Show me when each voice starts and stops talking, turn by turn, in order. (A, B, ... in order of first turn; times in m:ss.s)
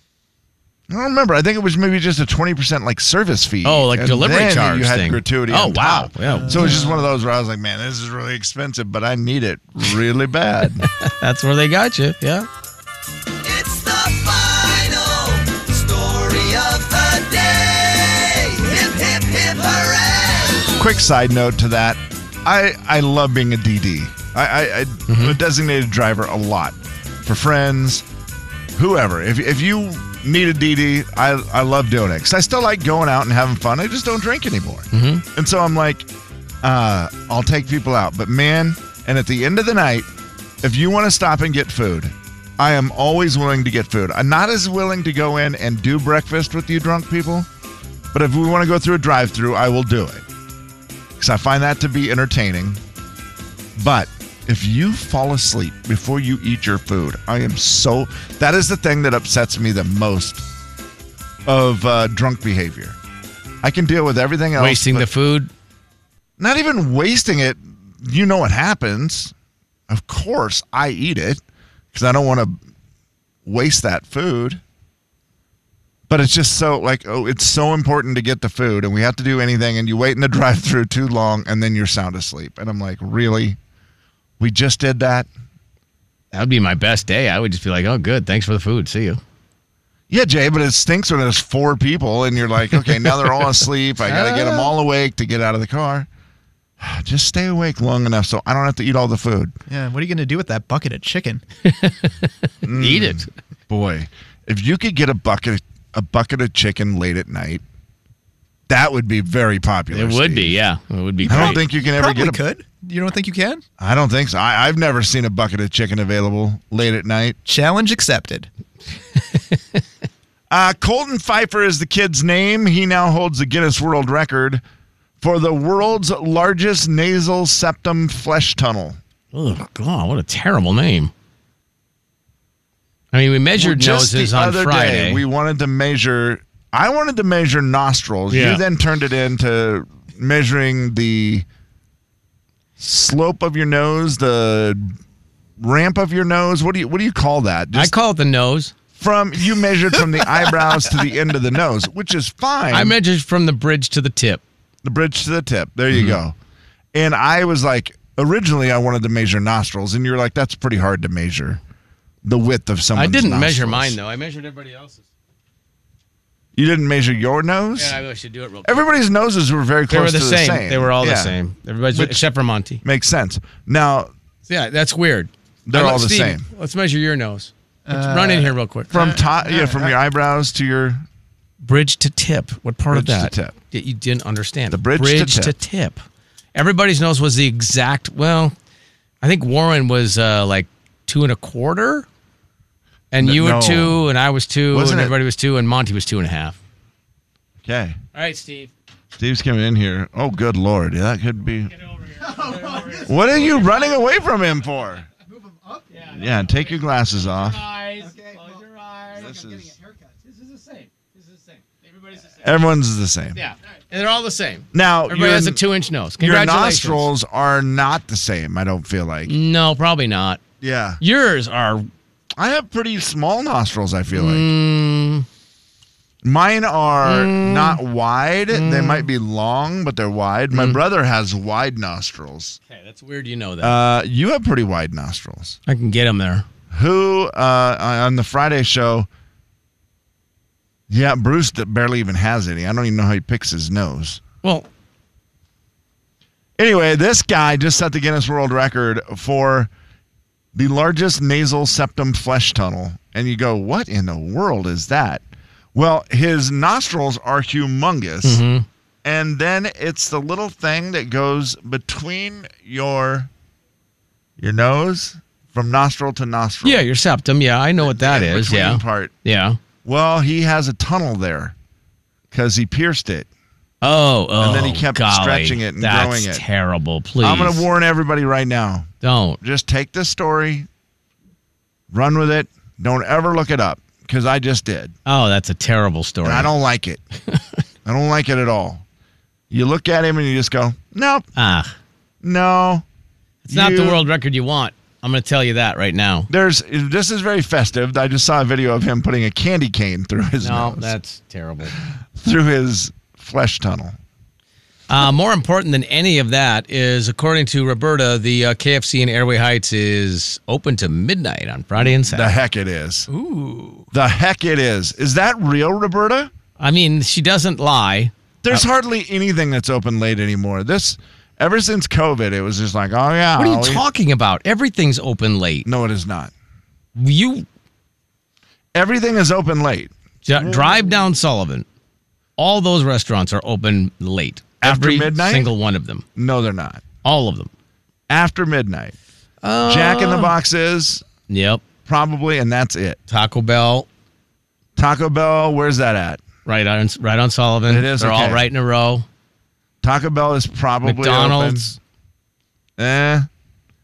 0:00.9-0:10.9 A
0:03.6-0:06.8 B
0:06.3-0:07.1 C
0:10.8-0:12.5 B
0:13.4-0:20.7 D
0:20.8-0:28.0 A
0:25.1-0:25.4 B
0:28.8-0:36.1 A
0:34.9-0:35.2 B
0:36.6-0:40.1 A
0:40.6-0:47.5 A
0:48.1-0:50.2 A
0:51.2-0:52.8 A
0:53.8-1:00.5 A
1:01.5-1:03.0 A
1:03.6-1:05.1 A
1:04.6-1:05.5 B
1:06.4-1:09.3 A
1:09.9-1:11.4 A
1:11.9-1:12.6 A
1:13.4-1:14.6 A
1:16.1-1:23.6 A
1:24.4-1:25.3 A
1:26.3-1:29.2 B
1:30.1-1:36.1 A
1:32.8-1:34.7 B
1:36.8-1:39.5 A
1:39.7-1:41.4 C
1:41.6-1:43.3 B
1:42.6-1:47.6 A
1:48.7-1:50.6 A
1:49.9-1:51.6 B
1:51.2-1:52.4 A
1:51.3-1:53.6 C
1:53.8-1:57.4 A
1:57.5-1:58.5 C
2:00.5-2:04.6 A
2:05.2-2:09.0 A
2:09.3-2:11.1 B
2:13.1-2:15.2 B
2:13.6-2:21.5 A
2:18.3-2:18.6 B
2:22.8-2:25.0 A
2:25.6-2:27.9 A
2:27.7-2:28.7 B
2:29.0-2:33.0 A
2:32.7-2:34.4 B
2:34.8-2:36.4 A
2:35.9-2:36.2 B
2:36.9-2:41.6 A
2:42.2-2:44.0 A
2:43.0-2:45.0 B
2:46.6-2:48.0 A
2:47.8-2:48.8 B
2:48.6-2:51.4 A
2:49.9-2:52.8 B
2:51.9-2:52.3 A
2:52.8-2:54.1 A
2:54.5-2:58.9 B
2:55.7-2:56.5 A
2:57.9-2:59.9 C
2:58.9-3:01.0 A
3:01.6-3:06.0 B
3:02.9-3:03.5 A
3:04.7-3:05.6 A
3:06.6-3:08.5 B
3:09.2-3:12.1 B
3:13.1-3:16.6 B
3:13.2-3:14.1 A
3:14.7-3:15.2 A
3:17.6-3:18.0 A
3:18.2-3:18.7 B
3:19.2-3:21.7 A
3:22.3-3:23.0 C
3:22.4-3:23.7 B
3:22.9-3:25.1 A
3:25.3-3:25.9 C
3:26.1-3:27.7 A
3:27.5-3:29.3 B
3:28.0-3:28.5 C
3:29.1-3:29.8 A
3:30.3-3:32.3 B
3:32.4-3:33.4 A
3:33.4-3:37.1 B
3:34.7-3:35.6 A
3:36.2-3:39.4 A
3:39.3-3:40.4 B
3:40.6-3:41.0 A
3:41.0-3:41.9 B
3:42.4-3:44.5 A
3:44.1-3:45.3 B
3:46.2-3:52.6 A
3:47.0-3:47.8 B
3:48.5-3:49.1 B
3:50.5-3:50.8 B
3:52.7-3:53.8 B
3:53.6-3:55.6 A
3:55.7-3:56.4 B
3:56.7-3:59.1 A
4:00.9-4:04.2 A
4:04.4-4:04.7 B
4:06.6-4:09.7 A
4:10.5-4:15.2 A
4:15.7-4:18.4 A
4:18.2-4:18.7 B
4:19.0-4:23.3 A
4:24.4-4:26.8 A
4:26.6-4:29.6 B
4:27.8-4:29.1 A
4:29.8-4:31.6 A
4:32.3-4:33.3 A
4:33.8-4:37.6 B
4:34.4-4:36.4 A
4:37.2-4:38.9 A
4:39.0-4:39.4 B
4:39.4-4:40.7 A
4:41.9-4:45.0 A
4:45.1-4:46.5 B
4:46.2-4:47.0 A
4:47.8-4:48.8 A
4:49.5-4:51.3 A
4:51.4-4:51.7 B
4:52.2-4:52.8 A
4:53.4-4:56.3 B
4:53.5-4:54.0 A
4:56.3-5:00.9 A
5:00.4-5:01.8 B
5:02.2-5:04.0 A
5:04.9-5:12.4 B
5:11.8-5:13.1 A
5:13.1-5:13.9 C
5:13.9-5:16.3 A
5:16.6-5:18.7 B
5:18.4-5:23.8 A
5:23.4-5:25.7 B
5:25.6-5:26.3 A
5:27.0-5:27.5 B
5:28.7-5:31.0 A
5:30.2-5:31.7 B
5:32.4-5:36.0 B
5:34.6-5:35.5 A
5:36.2-5:36.8 A
5:37.0-5:37.5 B
5:38.1-5:39.0 A
5:39.4-5:40.4 B
5:39.7-5:41.0 A
5:41.3-5:41.6 B
5:41.9-5:43.0 A
5:43.1-5:43.9 B
5:44.8-5:46.2 A
5:46.4-5:49.1 B
5:47.7-5:48.5 A
5:49.8-5:51.7 A
5:50.8-5:51.8 B
5:52.8-5:53.3 A